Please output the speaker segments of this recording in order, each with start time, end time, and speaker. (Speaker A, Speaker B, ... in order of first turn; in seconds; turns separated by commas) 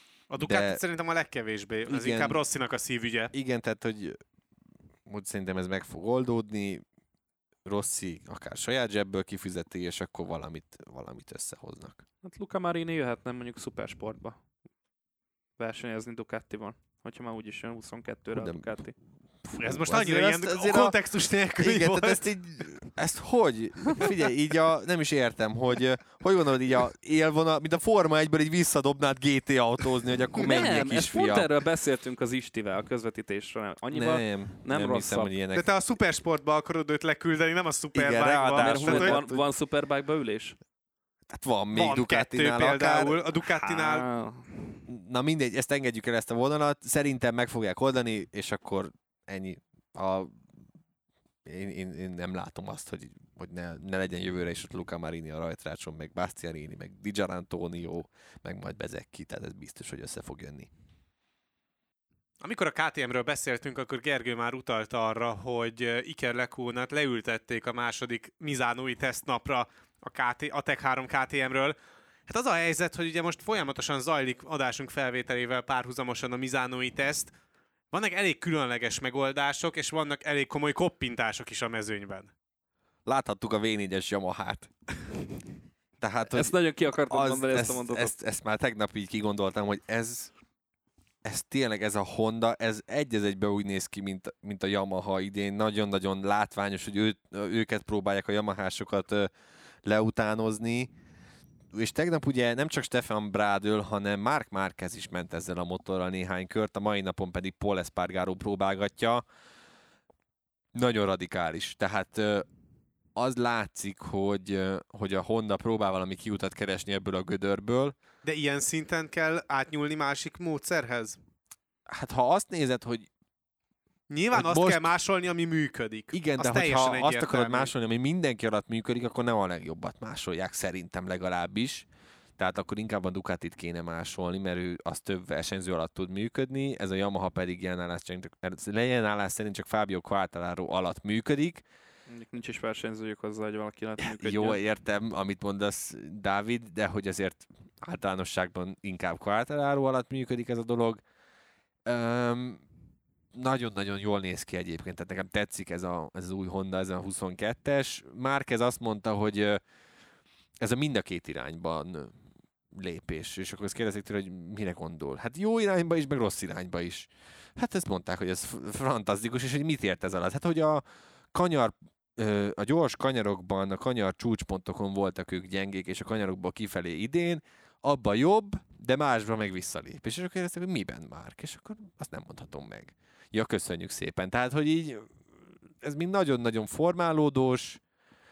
Speaker A: 0.3-3.3, Speaker B: 0.4-0.8, Speaker B: 1.9-2.4, Speaker B: 3.3-4.2, Speaker B: 5.1-6.8, Speaker B: 7.7-12.0, Speaker C: 12.2-14.4, Speaker C: 15.6-18.9, Speaker B: 18.3-18.8, Speaker A: 19.5-22.3, Speaker B: 19.6-31.5, Speaker C: 30.4-35.3, Speaker B: 33.9-35.7, Speaker A: 35.5-39.2, Speaker B: 37.9-39.5, Speaker C: 38.6-40.6, Speaker B: 41.3-43.2, Speaker A: 41.7-44.1, Speaker C: 43.5-44.8, Speaker B: 44.9-50.4, Speaker B: 51.5-60.7, Speaker A: 62.4-71.8, Speaker A: 72.3-77.3, Speaker A: 77.9-82.3, Speaker B: 83.1-84.7, Speaker B: 86.0-90.3, Speaker C: 86.3-88.2, Speaker B: 91.2-99.3, Speaker B: 99.8-100.9, Speaker B: 101.7-109.2, Speaker B: 110.7-112.5, Speaker B: 113.2-118.0, Speaker A: 118.2-121.2, Speaker B: 121.9-123.1, Speaker A: 124.1-127.7, Speaker B: 124.3-124.9, Speaker B: 126.1-131.9, Speaker B: 132.4-141.6, Speaker C: 142.1-144.6, Speaker B: 144.0-151.0, Speaker B: 151.9-152.6, Speaker B: 153.3-159.6, Speaker B: 160.6-162.2, Speaker B: 162.7-185.1, Speaker B: 185.8-187.8